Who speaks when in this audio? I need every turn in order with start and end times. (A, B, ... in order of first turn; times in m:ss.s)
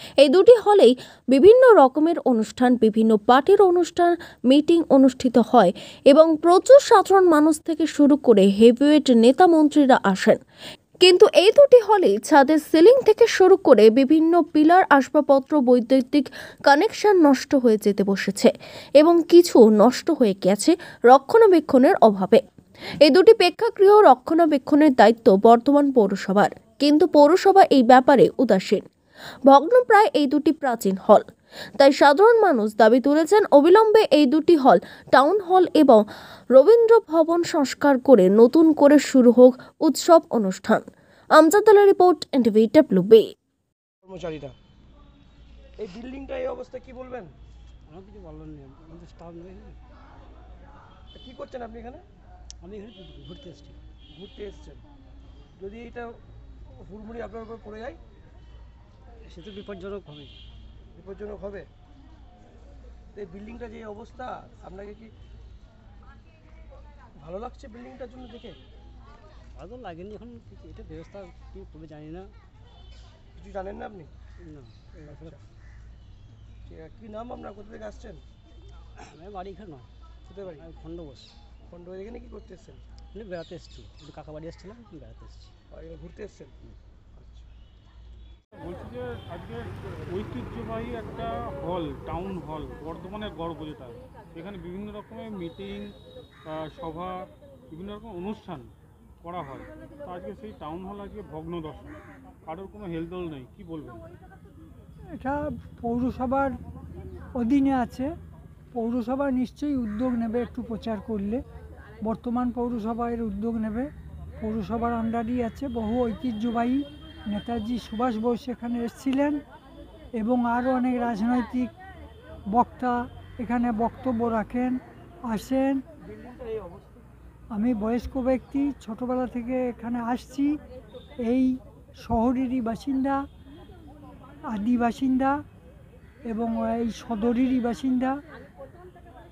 0:00.2-0:10.4 A
0:11.0-0:22.4 A
0:23.0-0:28.8 A
0:29.5-0:31.2 A
0:31.8-0:40.8 A
0:41.4-0:43.3 A
0:44.0-0:44.6 B
0:45.8-0:47.3 B
0:47.9-0:49.8 C
0:51.2-0:52.0 B
0:52.6-0:53.8 C
0:54.1-0:54.8 B
0:55.6-0:56.1 B
0:56.8-0:58.0 B
0:59.3-1:00.4 C
1:01.0-1:01.7 B
1:03.2-1:05.1 B
1:07.2-1:08.6 B
1:09.6-1:12.3 C
1:13.4-1:14.1 B
1:14.4-1:15.4 C
1:15.1-1:15.4 B
1:16.7-1:18.2 B
1:19.0-1:19.9 C
1:20.3-1:20.7 B
1:20.5-1:21.3 C
1:21.7-1:22.8 B
1:23.1-1:25.5 C
1:25.7-1:26.5 B
1:27.2-1:27.5 B
1:28.5-1:38.7 D
1:39.2-1:41.9 D
1:42.5-1:44.0 D
1:45.2-1:46.5 E
1:47.4-1:48.1 E
1:48.7-1:51.4 E
1:52.0-1:53.9 E
1:54.4-1:59.4 E
2:00.2-2:01.7 E
2:02.5-2:05.8 E
2:06.0-2:07.1 B
2:07.5-2:10.6 E
2:11.2-2:13.2 E
2:14.5-2:15.4 E
2:16.3-2:18.2 E